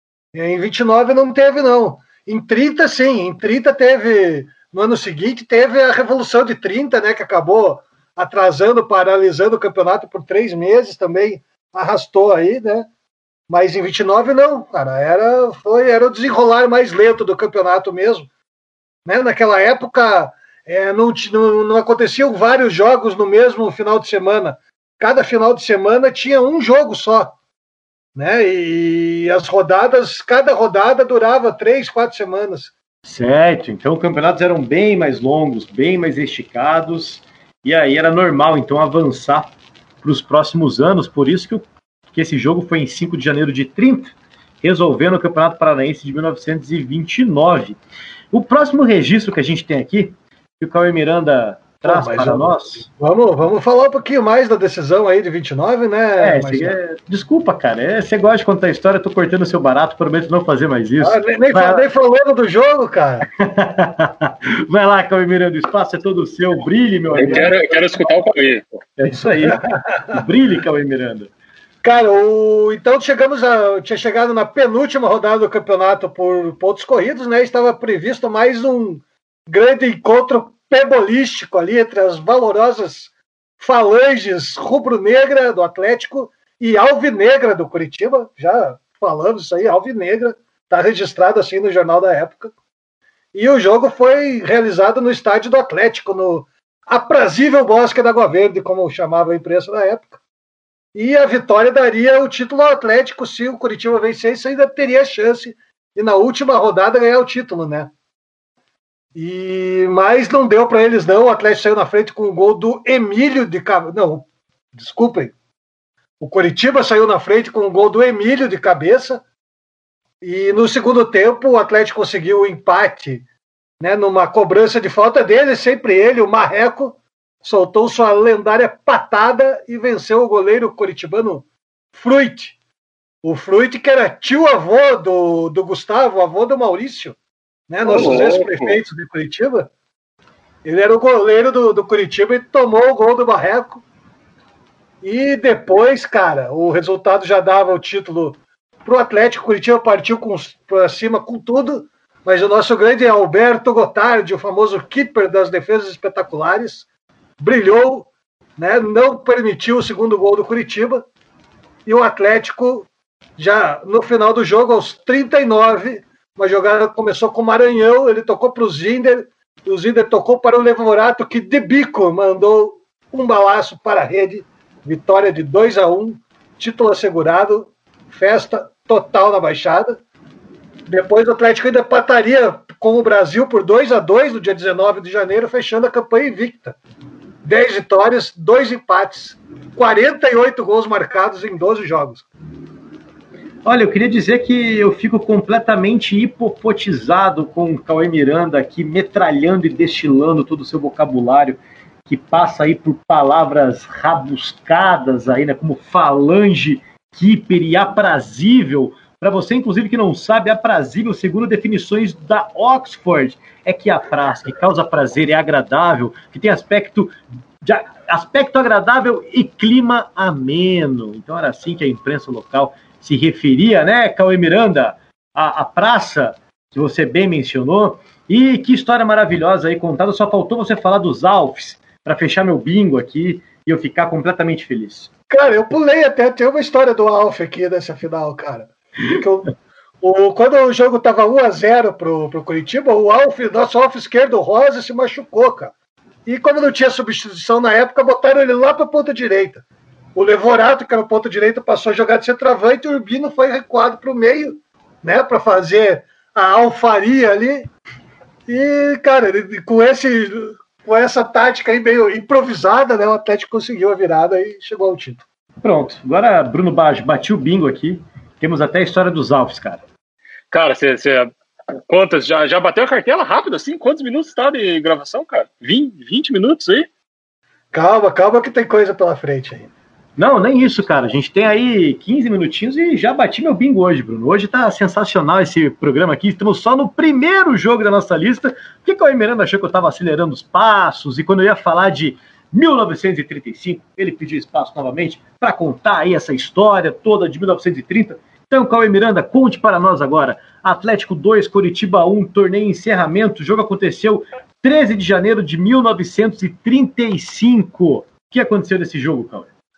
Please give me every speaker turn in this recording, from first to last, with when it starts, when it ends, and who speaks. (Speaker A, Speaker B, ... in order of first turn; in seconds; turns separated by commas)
Speaker A: 0.3-12.9, Speaker A: 13.5-18.3, Speaker A: 19.1-27.4, Speaker A: 28.1-32.7, Speaker B: 33.0-47.8, Speaker B: 48.3-52.9, Speaker A: 51.9-56.8, Speaker B: 56.2-61.9, Speaker A: 61.0-63.3, Speaker B: 63.4-67.5, Speaker C: 67.2-68.8, Speaker B: 69.0-71.3, Speaker A: 69.4-70.2, Speaker A: 71.8-92.5, Speaker A: 93.3-100.2, Speaker A: 101.0-107.9, Speaker A: 109.2-115.3, Speaker A: 116.2-119.2, Speaker A: 120.2-123.2, Speaker A: 123.8-132.6, Speaker A: 133.2-137.2, Speaker A: 137.7-139.7, Speaker C: 137.8-138.8, Speaker A: 140.6-143.8, Speaker A: 145.0-156.9, Speaker A: 157.4-161.1, Speaker A: 161.9-180.0, Speaker A: 180.9-186.8, Speaker A: 187.4-192.3, Speaker B: 193.7-235.1, Speaker A: 235.3-245.7, Speaker A: 246.3-249.6, Speaker A: 250.2-257.7, Speaker A: 258.5-265.2, Speaker B: 265.6-269.8, Speaker C: 270.5-276.9, Speaker A: 277.7-279.7, Speaker B: 280.2-309.5